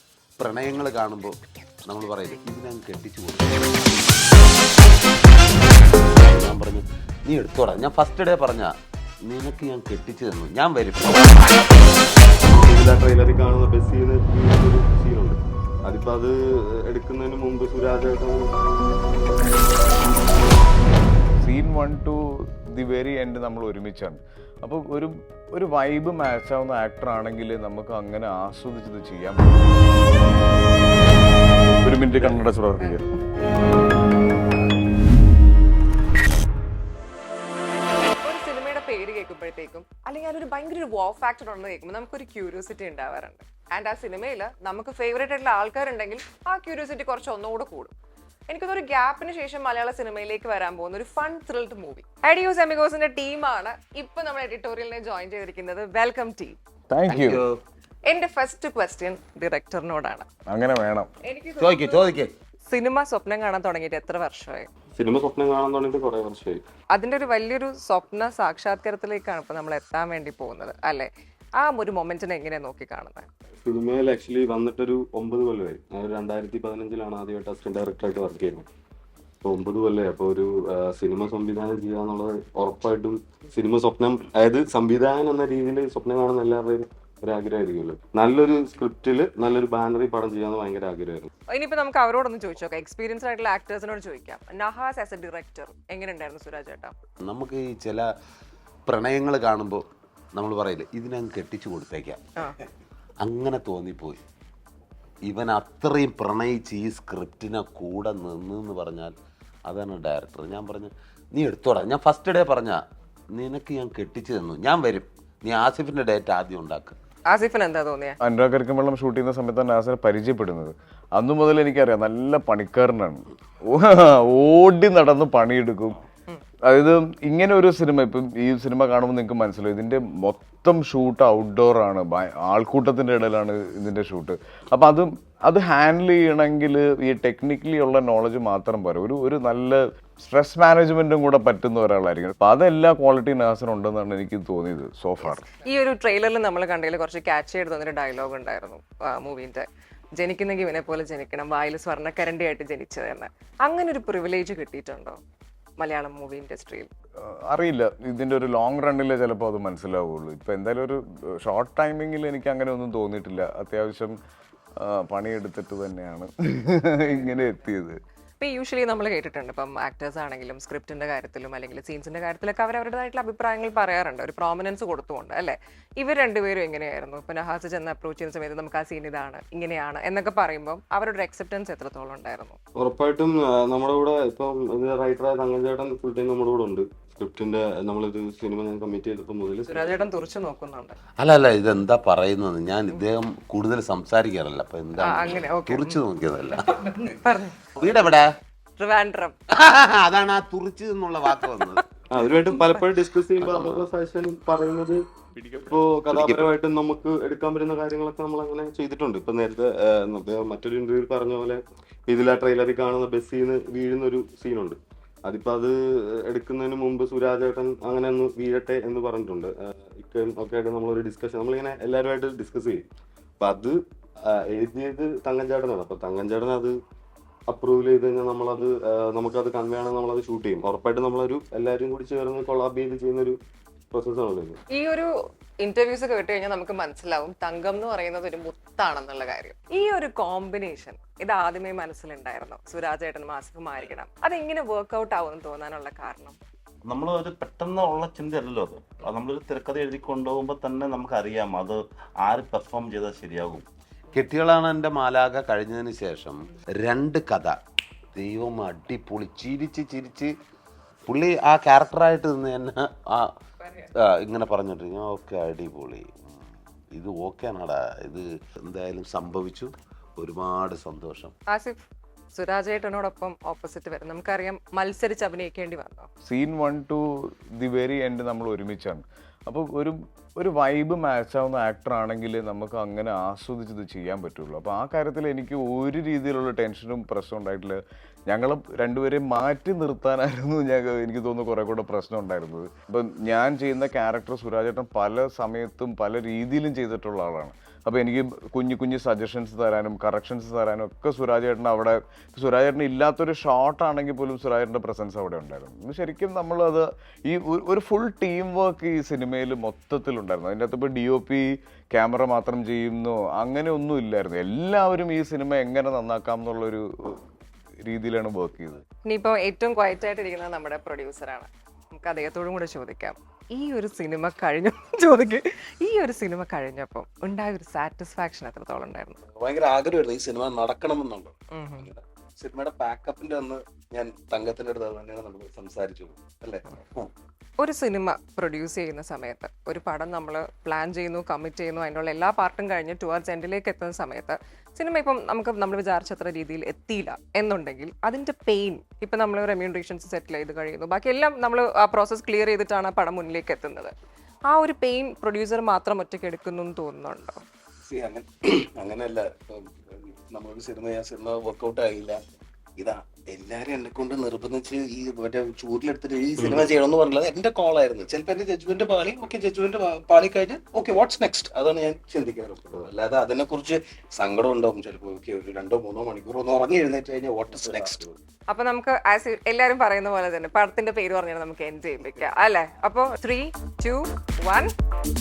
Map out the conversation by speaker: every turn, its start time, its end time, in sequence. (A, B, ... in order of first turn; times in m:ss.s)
0:00.4-0:04.2 A
0:06.0-0:08.7 A
0:09.3-0:11.6 A
0:12.5-0:16.3 B
0:16.8-0:18.5 B
0:21.4-0:22.2 C
0:22.7-0:29.6 C
0:31.8-0:33.0 C
0:38.2-0:47.9 D
0:48.5-0:56.6 D
0:56.9-0:57.4 C
0:58.1-1:00.3 D
1:00.5-1:01.1 C
1:01.2-1:02.1 D
1:01.6-1:02.3 A
1:02.6-1:04.7 D
1:05.0-1:06.6 B
1:06.9-1:13.3 D
1:13.6-1:18.6 B
1:19.4-1:31.3 B
1:31.5-1:36.9 D
1:37.2-1:38.0 A
1:38.9-1:42.2 A
1:43.2-1:44.2 A
1:45.2-1:49.1 A
1:49.7-1:52.8 A
1:53.3-1:57.0 A
1:57.3-1:58.2 D
1:58.2-2:06.0 C
2:06.7-2:25.4 C
2:25.2-2:29.7 D
2:30.2-2:35.2 D
2:35.8-2:36.9 D
2:37.2-2:44.2 C
2:44.8-2:48.0 C
2:48.4-3:02.6 D
3:02.8-3:09.9 B
3:09.6-3:11.0 D
3:11.2-3:16.6 A
3:15.0-3:17.7 D
3:17.8-3:18.3 A
3:18.8-3:19.4 D
3:19.5-3:21.8 A
3:22.1-3:25.0 B
3:22.5-3:22.8 D
3:23.4-3:23.8 A
3:25.5-3:42.8 B
3:43.4-3:43.7 B
3:44.5-3:46.7 B
3:47.5-3:53.4 B
3:53.9-3:54.6 B
3:54.7-3:55.1 D
3:55.6-4:06.4 D
4:06.9-4:13.6 E
4:14.1-4:17.6 A
4:18.1-4:20.3 A
4:21.1-4:23.3 A
4:24.0-4:26.2 A
4:26.9-4:31.3 A
4:31.5-4:31.8 D
4:32.3-4:36.1 D
4:36.2-5:17.2 C
5:17.8-5:18.8 C
5:19.0-5:29.2 D
5:29.3-5:37.1 F
5:31.5-5:31.9 D
5:37.6-5:53.9 D
5:54.5-5:57.4 D
5:57.8-6:02.2 F
6:02.8-6:18.2 F
6:18.5-6:24.7 D